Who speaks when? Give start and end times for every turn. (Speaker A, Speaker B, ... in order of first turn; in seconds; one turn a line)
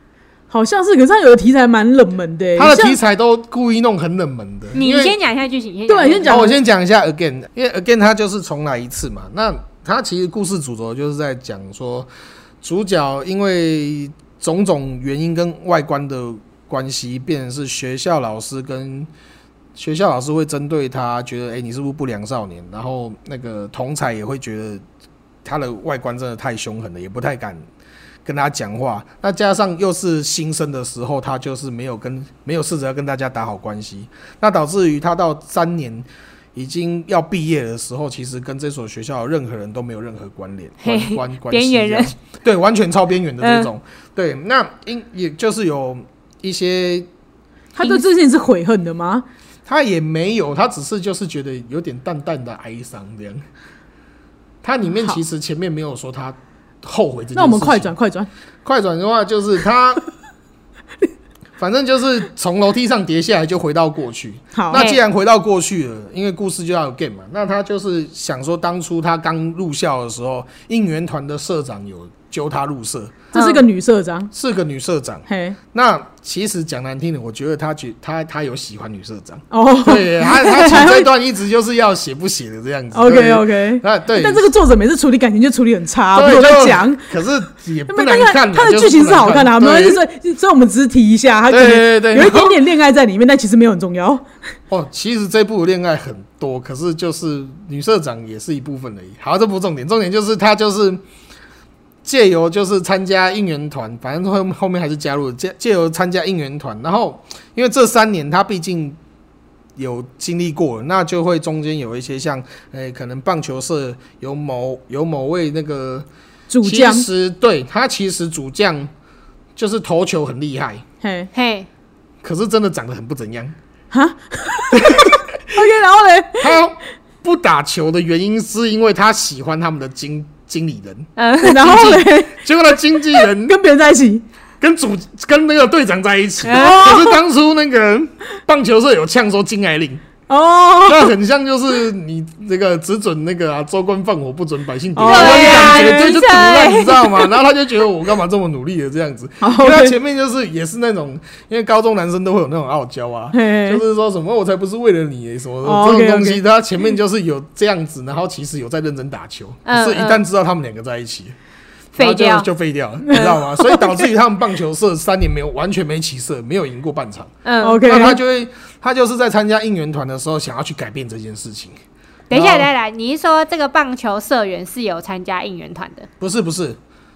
Speaker A: 0.5-3.0
Speaker B: 2.6-5.2
Speaker C: 4.7-6.5
Speaker A: 5.9-6.5
Speaker B: 6.3-12.1
Speaker B: 12.6-19.1
Speaker B: 19.8-24.8
Speaker B: 25.4-27.6
Speaker B: 28.2-47.1
Speaker C: 40.8-42.1
Speaker C: 43.4-43.7
Speaker A: 47.8-49.2
Speaker B: 49.6-53.4
Speaker B: 54.6-57.9
Speaker A: 57.3-58.3
Speaker B: 58.6-60.0
Speaker B: 61.6-73.3
Speaker A: 64.5-64.8
Speaker C: 64.7-65.0
Speaker A: 73.3-74.3
Speaker C: 73.3-73.6
Speaker B: 74.3-84.5
Speaker A: 75.3-75.6
Speaker A: 79.5-81.1
Speaker A: 82.9-87.0
Speaker B: 86.1-90.0
Speaker A: 87.9-94.2
Speaker B: 91.5-92.6
Speaker B: 94.7-101.0
Speaker B: 102.0-109.0
Speaker B: 109.8-116.1
Speaker A: 116.5-117.0
Speaker B: 116.6-118.9
Speaker B: 119.5-120.8
Speaker A: 121.0-121.3
Speaker C: 121.3-121.7
Speaker B: 122.2-123.5
Speaker A: 123.9-126.5
Speaker B: 124.7-125.6
Speaker B: 126.4-133.6
Speaker C: 131.2-131.7
Speaker A: 131.4-132.3
Speaker A: 133.1-134.2
Speaker B: 134.6-140.0
Speaker C: 136.4-137.1
Speaker A: 136.5-137.1
Speaker A: 140.3-141.1
Speaker B: 140.8-161.3
Speaker A: 144.9-146.1
Speaker C: 145.0-147.3
Speaker A: 149.4-149.9
Speaker A: 153.3-153.8
Speaker A: 155.6-156.4
Speaker C: 159.7-160.2
Speaker B: 161.9-171.8
Speaker C: 161.9-162.5
Speaker A: 163.1-164.0
Speaker C: 167.4-167.9
Speaker A: 167.6-168.2
Speaker C: 172.3-176.1
Speaker B: 172.3-172.7
Speaker B: 176.2-176.8